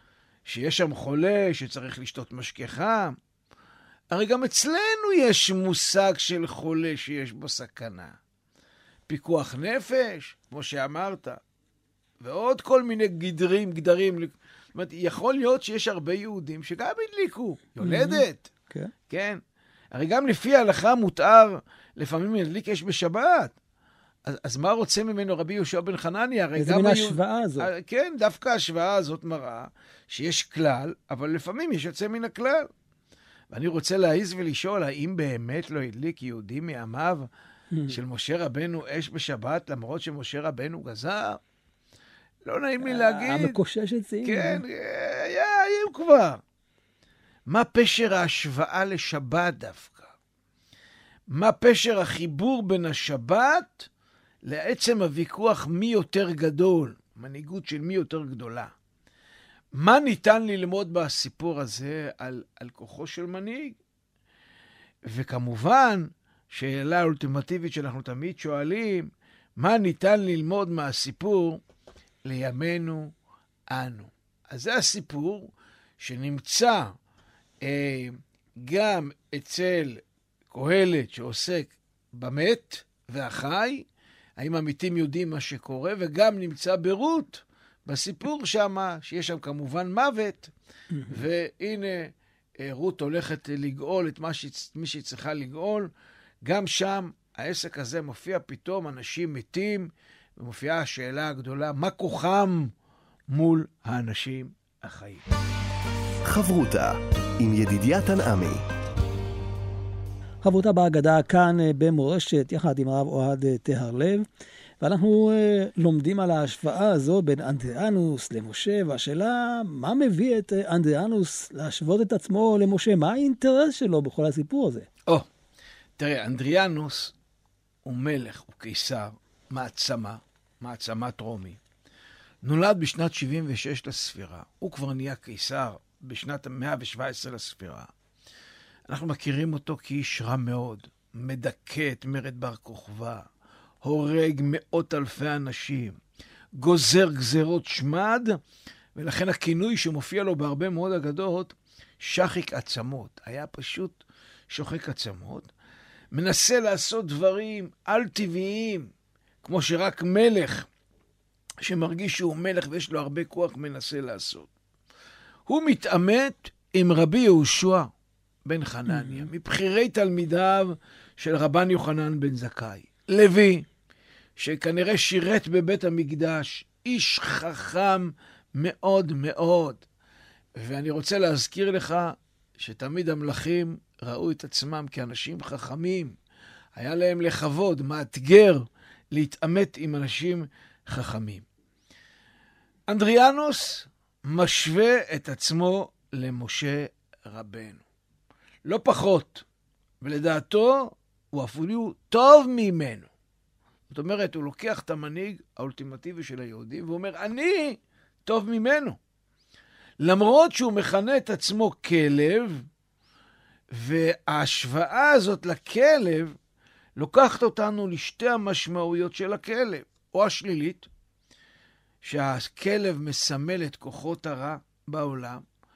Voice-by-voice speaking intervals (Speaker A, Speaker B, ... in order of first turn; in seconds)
Speaker A: 0.5-3.1, 4.1-8.1, 9.1-11.4, 12.2-18.5, 19.1-19.4, 19.9-23.5, 24.2-32.7, 33.5-37.3, 37.9-41.4, 42.4-43.6, 44.2-46.4, 47.5-50.1, 51.3-53.9, 54.4-58.7, 59.7-63.8, 65.0-71.6, 72.2-73.1, 73.7-76.9, 77.6-83.8, 84.4-90.5, 91.1-95.9, 96.4-102.7, 103.3-105.2, 126.0-127.1, 127.8-131.6, 132.4-137.9, 138.9-143.2, 143.8-146.0, 146.5-148.4, 148.9-155.5, 156.1-158.9, 159.4-160.7, 161.6-164.5, 165.5-167.9, 168.4-173.6, 174.4-179.8, 180.6-186.2, 186.8-191.4, 192.9-197.8, 198.6-199.4, 200.0-203.1, 203.9-209.0, 210.0-212.6, 213.7-216.3, 217.0-220.9, 222.0-225.4
Speaker B: 17.8-18.9, 26.6-27.7, 42.8-44.6, 90.9-91.2, 110.4-114.2, 114.8-124.9, 168.9-169.3
Speaker C: 106.2-108.6